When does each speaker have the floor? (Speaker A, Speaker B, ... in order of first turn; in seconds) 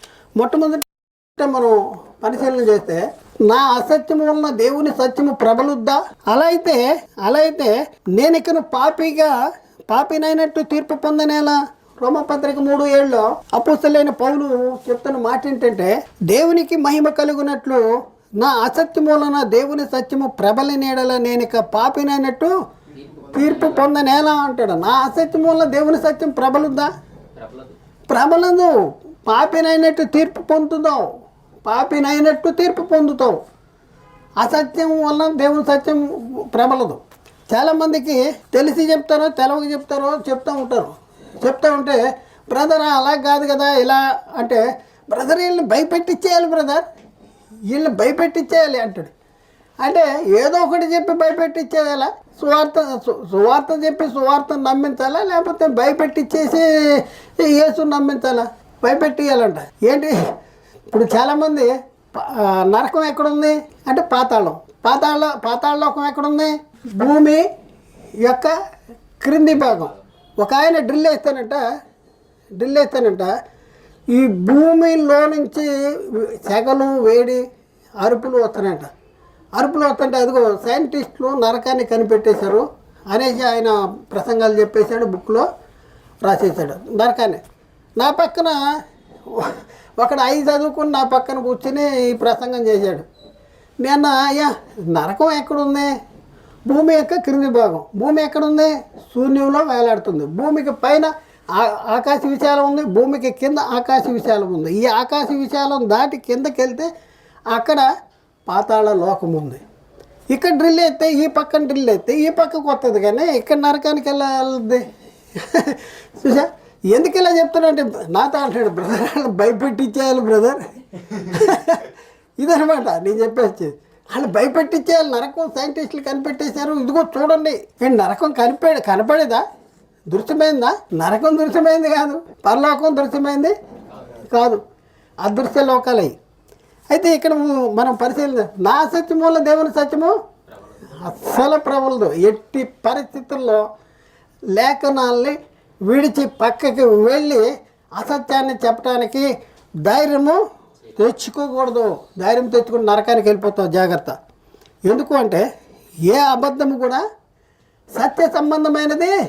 Speaker A: 0.4-9.4, 9.9-17.9, 18.4-22.5, 23.3-26.9, 28.1-31.1, 31.7-33.4, 34.4-46.9, 47.7-49.1, 49.8-60.2, 60.9-67.5, 68.2-68.5, 69.2-71.6, 72.6-73.3, 74.1-77.4, 78.0-78.9, 79.6-85.5, 86.2-87.4, 88.0-88.6, 89.3-93.1, 93.8-96.0, 96.7-106.9, 107.5-107.9, 108.5-109.6, 110.3-114.8, 115.4-129.4, 130.1-133.5, 134.1-134.6, 135.2-136.2, 136.9-140.1, 140.9-143.6, 144.5-149.3, 149.8-150.4, 150.9-154.2, 154.9-155.4, 156.1-157.0, 158.0-159.1
Speaker B: 22.9-23.9, 27.4-27.8, 69.6-69.9, 133.9-134.2, 140.6-140.9